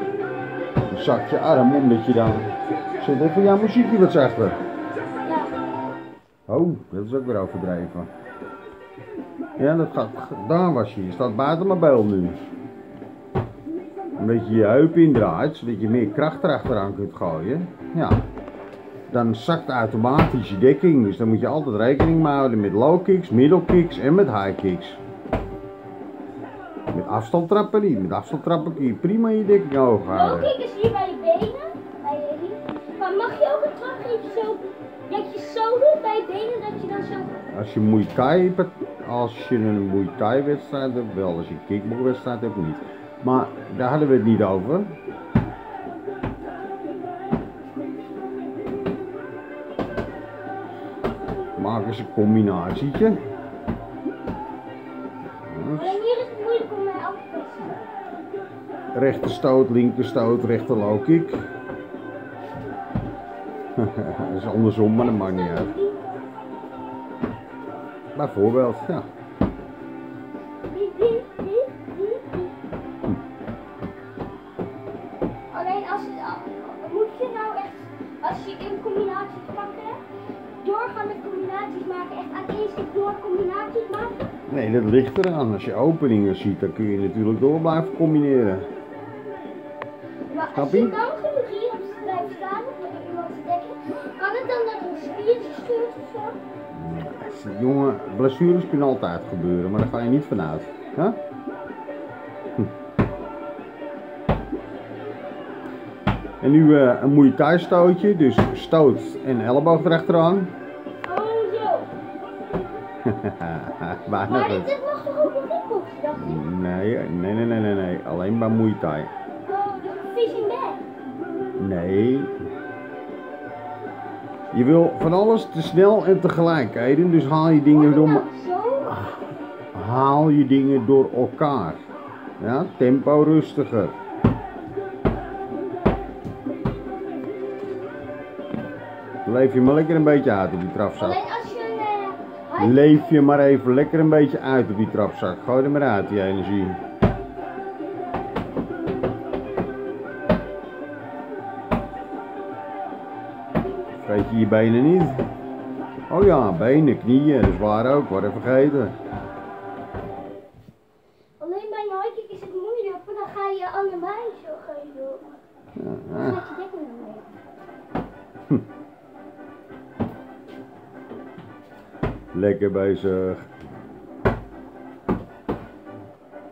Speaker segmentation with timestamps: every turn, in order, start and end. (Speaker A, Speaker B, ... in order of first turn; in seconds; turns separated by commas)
Speaker A: 0.9-4.6, Speaker B: 5.2-5.5, Speaker A: 6.5-8.1, Speaker A: 9.6-12.4, Speaker A: 14.2-18.2, Speaker A: 19.1-25.0, Speaker A: 26.9-30.5, Speaker B: 30.1-37.4, Speaker A: 37.0-44.9, Speaker A: 51.6-53.2, Speaker A: 55.5-56.0, Speaker B: 55.8-57.9, Speaker A: 58.9-61.4, Speaker A: 63.8-65.7, Speaker B: 64.8-66.2, Speaker A: 68.1-69.0, Speaker B: 70.7-72.5, Speaker B: 75.5-80.0, Speaker B: 80.6-84.3, Speaker A: 84.5-88.7, Speaker B: 90.3-96.4, Speaker A: 90.5-91.0, Speaker A: 96.7-101.2, Speaker A: 106.4-110.5, Speaker B: 111.0-111.9, Speaker A: 113.0-114.7, Speaker B: 114.2-116.4, Speaker A: 116.1-119.1, Speaker B: 119.5-120.8, Speaker A: 121.5-122.3, Speaker A: 124.5-128.3, Speaker B: 127.7-128.9, Speaker A: 128.9-129.2, Speaker A: 129.7-131.8, Speaker A: 132.4-133.9, Speaker A: 139.2-141.2, Speaker B: 141.0-143.1, Speaker A: 142.6-146.8, Speaker A: 154.0-155.2, Speaker A: 156.1-158.9, Speaker B: 161.4-165.2, Speaker A: 165.8-166.4, Speaker B: 166.2-167.4, Speaker A: 172.3-173.5